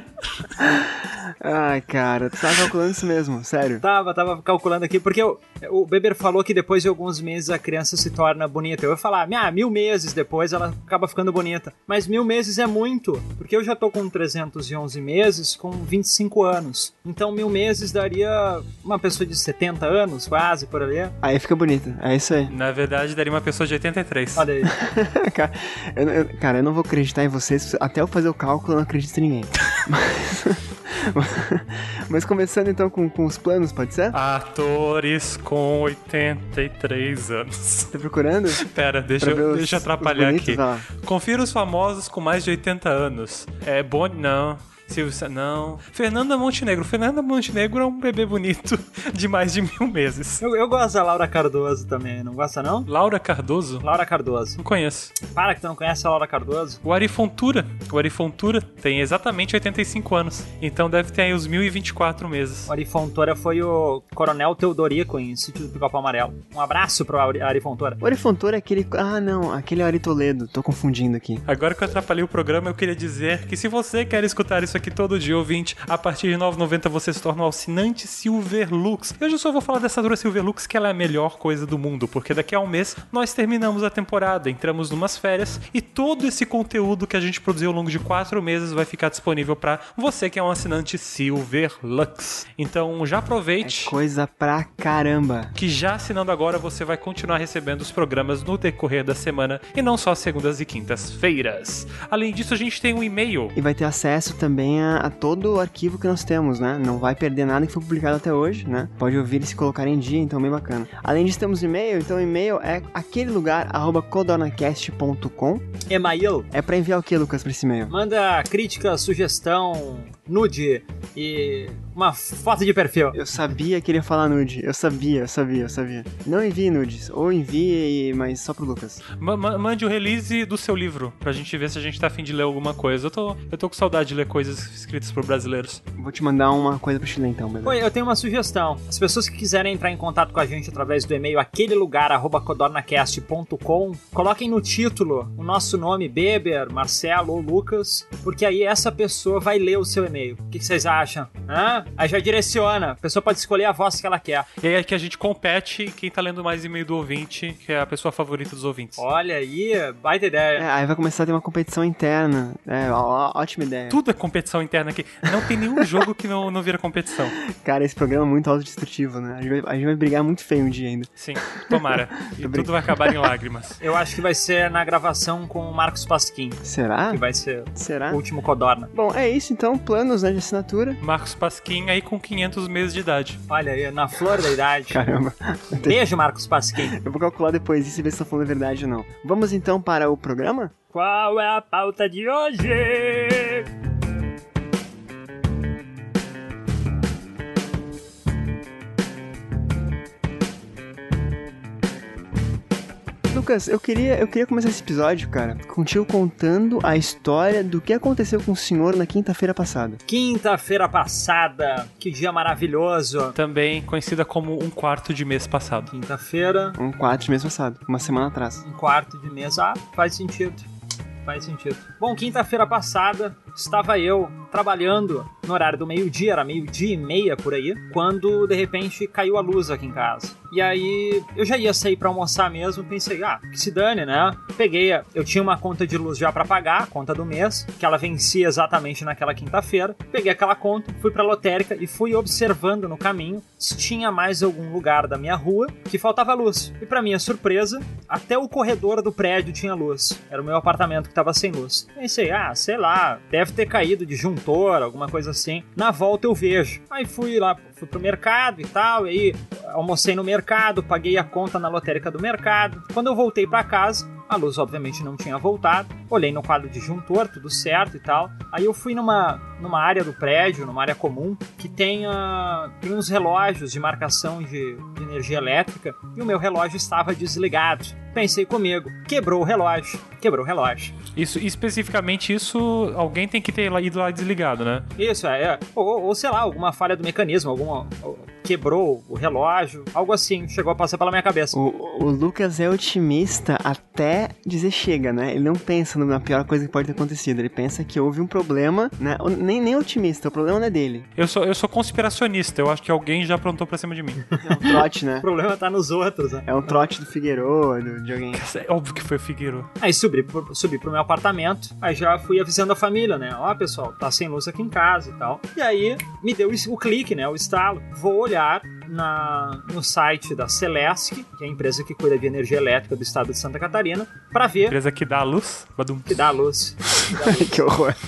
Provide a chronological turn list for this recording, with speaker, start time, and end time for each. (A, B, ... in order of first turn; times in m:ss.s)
0:00.5-0:03.8 A
0:03.8-0:21.2 B
0:21.2-0:22.5 A
0:22.5-0:24.5 C
0:24.4-0:24.8 B
0:24.7-0:34.2 A
0:34.1-0:37.9 C
0:37.9-0:38.6 A
0:38.6-0:50.4 C
0:39.2-0:40.9 A
0:50.4-0:52.9 B
0:52.9-0:53.8 C
0:53.8-0:54.6 B
0:54.6-0:55.2 C
0:55.3-0:56.8 B
0:56.8-1:02.7 C
1:02.7-1:08.0 B
1:08.0-1:11.4 A
1:11.5-1:34.0 C
1:33.6-1:35.6 A
1:35.6-1:43.6 C
1:43.6-1:55.7 A
1:55.9-1:56.5 B
1:56.5-1:57.9 A
1:57.9-2:03.2 B
2:03.1-2:09.0 A
2:09.1-2:15.8 C
2:16.0-2:17.8 A
2:17.6-2:34.5 B
2:34.6-2:39.0 C
2:39.0-2:40.7 B
2:40.6-2:44.0 A
2:43.9-2:47.4 C
2:45.8-2:46.0 A
2:47.4-2:53.2 A
2:51.2-2:53.8 C
2:53.8-2:58.9 B
2:56.6-2:57.2 A
2:57.8-2:58.2 A
2:58.9-3:01.0 A
3:01.0-3:03.4 C
3:03.5-3:05.0 B
3:04.9-3:06.0 A
3:05.8-3:07.0 B
3:06.9-3:10.7 A
3:10.9-3:13.7 B
3:23.3-3:30.0 A
3:30.1-3:33.4 B
3:33.4-3:35.9 C
3:35.9-3:36.8 B
3:36.8-3:38.6 A
3:38.6-3:40.6 B
3:41.2-4:41.0 B
4:41.2-4:44.9 C
4:45.0-4:51.6 B
4:51.5-5:01.1 A
5:01.2-5:04.2 C
5:04.3-5:06.5 B
5:04.4-5:05.2 A
5:06.4-5:08.4 A
5:08.3-5:09.7 C
5:09.8-5:24.8 B
5:24.6-5:26.3 C
5:26.1-5:27.6 B
5:27.1-5:28.0 A